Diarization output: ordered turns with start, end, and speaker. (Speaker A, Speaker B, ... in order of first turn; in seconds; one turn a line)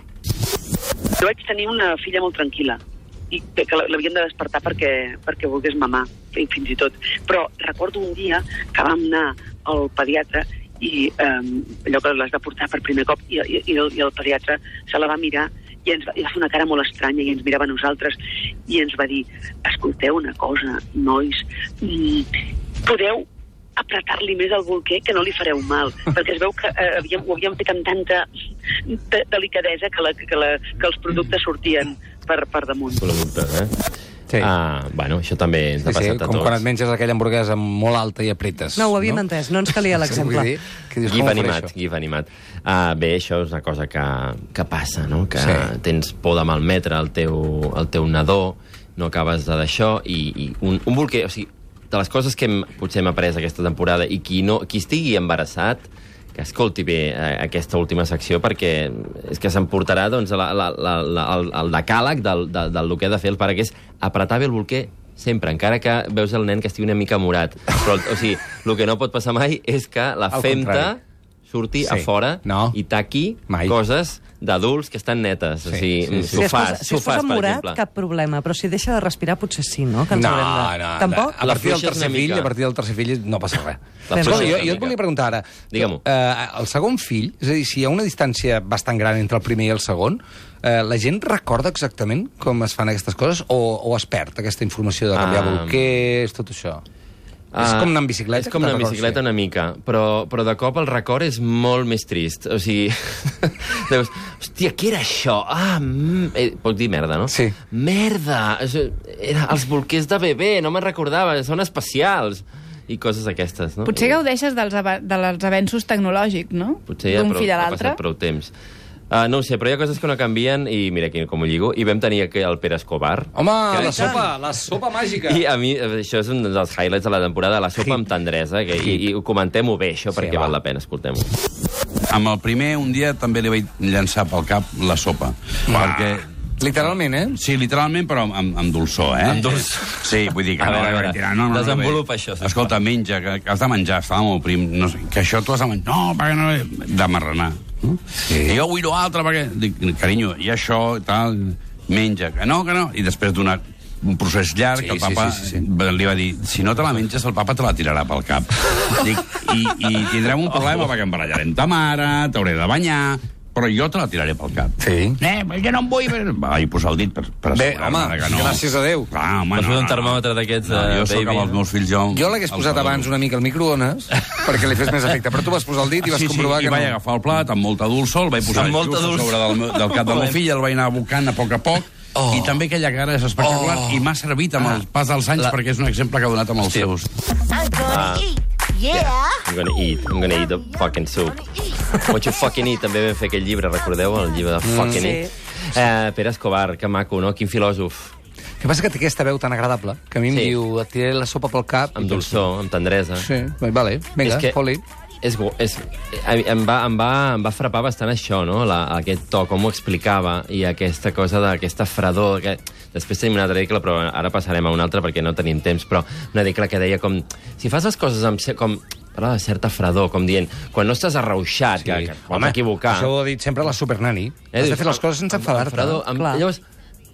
Speaker A: 1.2-22.3
Speaker A: 22.8-23.2
Speaker A: 23.8-28.3
Speaker A: 28.9-33.0
Speaker B: 33.0-33.7
Speaker B: 34.4-36.6
Speaker C: 35.9-39.2
Speaker D: 38.8-40.5
Speaker C: 39.9-41.7
Speaker B: 41.0-77.8
Speaker C: 45.4-45.7
Speaker C: 70.3-70.9
Speaker C: 71.8-72.8
Speaker C: 73.5-73.7
Speaker C: 75.7-76.5
Speaker D: 76.3-81.4
Speaker C: 80.1-96.8
Speaker B: 81.4-82.5
Speaker B: 84.1-85.0
Speaker D: 84.2-84.5
Speaker B: 85.7-86.0
Speaker B: 95.1-95.9
Speaker B: 97.5-114.2
Speaker C: 97.6-99.2
Speaker C: 107.3-107.5
Speaker E: 113.8-118.0
Speaker B: 116.9-118.5
Speaker B: 119.1-124.3
Speaker C: 123.3-125.4
Speaker D: 123.8-124.2
Speaker B: 125.2-131.3
Speaker C: 130.1-130.5
Speaker F: 132.1-136.3
Speaker B: 135.7-135.9
Speaker C: 135.7-136.0
Speaker C: 136.6-137.4
Speaker F: 137.3-173.1
Speaker B: 139.2-142.7
Speaker C: 148.2-148.6
Speaker C: 154.7-155.6
Speaker B: 160.5-160.9
Speaker C: 164.8-165.2
Speaker C: 167.5-169.1
Speaker B: 169.5-171.6
Speaker C: 172.1-177.0
Speaker F: 176.0-187.1
Speaker B: 178.4-180.4
Speaker B: 187.8-198.1
Speaker C: 194.6-195.1
Speaker D: 194.9-195.3
Speaker C: 198.6-202.5
Speaker B: 200.3-200.6
Speaker B: 201.9-203.3
Speaker C: 203.2-204.8
Speaker B: 204.2-204.6
Speaker B: 205.2-223.1
Speaker C: 221.8-226.0
Speaker B: 224.5-226.6
Speaker D: 226.1-226.4